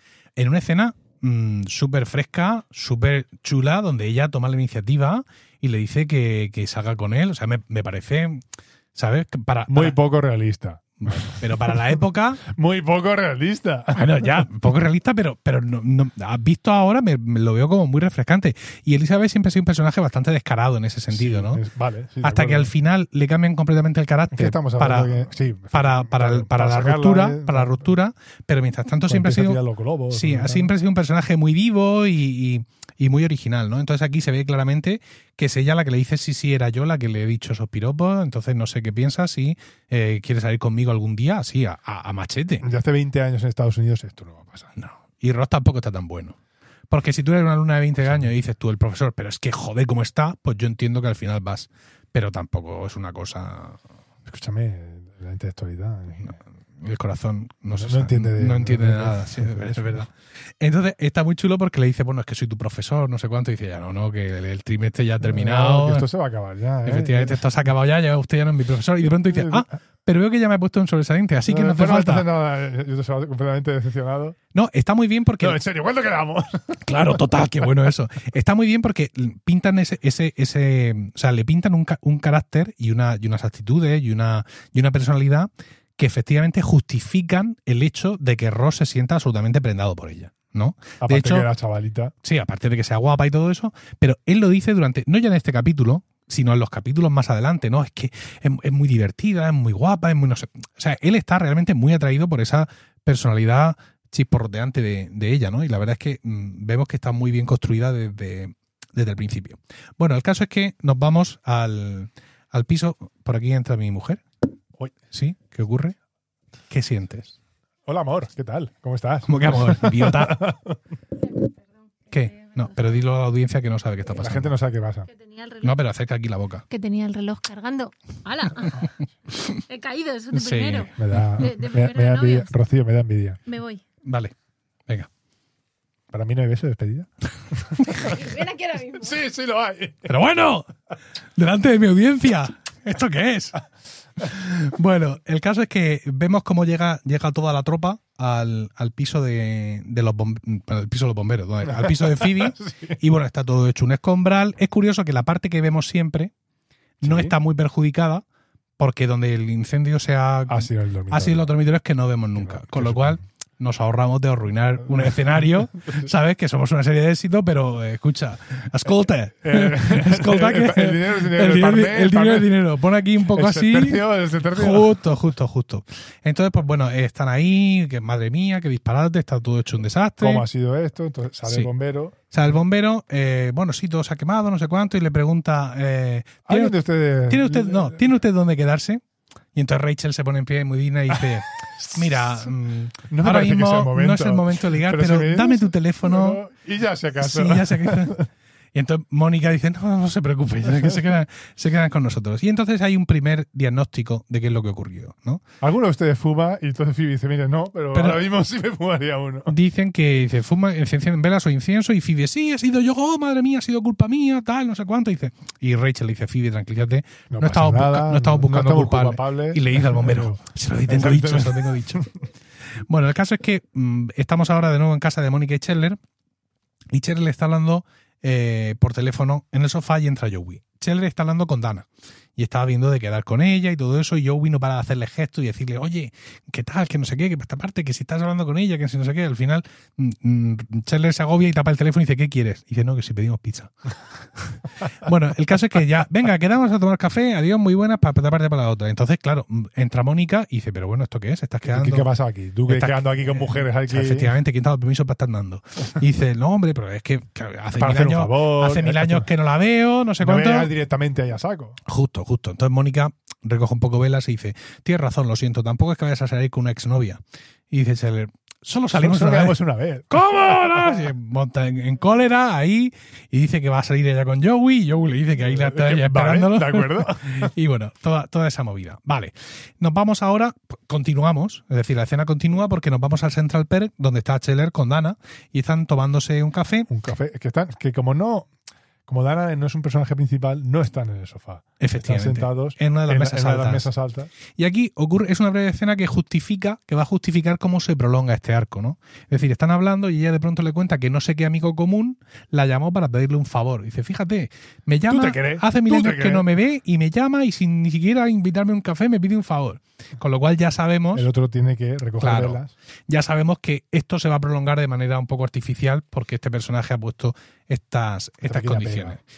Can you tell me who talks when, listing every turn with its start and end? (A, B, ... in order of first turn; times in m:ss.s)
0:00.4-0:10.0 A
0:09.7-0:11.8 B
0:11.0-0:12.4 A
0:12.4-0:14.5 B
0:13.9-0:21.6 A
0:21.1-0:22.7 B
0:22.2-0:29.6 A
0:24.3-0:27.9 B
0:29.1-0:30.7 B
0:30.1-0:42.7 A
0:42.6-0:44.7 B
0:44.8-0:46.4 A
0:46.9-0:53.8 A
0:54.3-0:56.4 B
0:56.8-1:06.1 A
0:57.7-1:00.1 B
1:05.2-1:07.4 B
1:06.8-1:12.3 A
1:09.3-1:09.7 B
1:11.5-1:14.4 B
1:14.5-1:15.6 A
1:15.4-1:17.1 B
1:16.8-1:31.5 A
1:31.0-1:32.1 B
1:32.2-1:54.2 A
1:55.1-1:56.0 A
1:56.7-1:57.4 A
1:57.9-2:00.8 B
1:59.3-2:00.5 A
2:02.1-2:04.6 A
2:04.2-2:05.1 B
2:05.1-2:05.8 C
2:05.6-2:06.6 A
2:06.7-2:08.9 C
2:09.3-2:09.6 A
2:09.6-2:12.5 C
2:10.3-2:11.4 A
2:11.0-2:13.4 B
2:13.5-2:13.8 C
2:14.0-2:14.3 A
2:16.1-2:18.3 B
2:17.8-2:18.1 A
2:17.9-2:19.2 C
2:19.0-2:20.1 B
2:20.1-2:20.7 A
2:21.4-2:23.6 A
2:24.2-2:36.3 A
2:31.6-2:33.0 B
2:37.0-2:38.2 A
2:37.0-2:37.4 B
2:38.8-3:00.5 A
2:40.5-2:41.5 B
2:42.4-2:43.2 B
2:49.4-2:52.5 B
2:53.3-2:55.0 B
3:00.2-3:02.2 B
3:02.3-3:09.0 A
3:06.5-3:08.0 B
3:09.5-3:16.4 A
3:13.1-3:18.3 B
3:17.2-3:18.2 A
3:18.7-3:25.4 A
3:25.6-3:29.5 B
3:27.9-3:28.2 A
3:29.5-3:42.1 A
3:37.3-3:42.1 B
3:42.7-3:46.0 A
3:46.9-4:12.1 A
4:11.6-4:14.3 B
4:12.7-4:20.7 A
4:17.8-4:19.3 B
4:20.2-4:21.8 B
4:21.9-4:29.6 A
4:28.9-4:31.1 B
4:30.1-4:46.9 A
4:35.4-4:37.5 B
4:46.9-4:48.5 B
4:49.1-4:54.3 B
4:51.8-4:53.9 A
4:54.6-5:11.3 A
5:05.1-5:06.5 B
5:11.1-5:12.7 B
5:12.2-5:19.2 A
5:18.4-5:19.2 B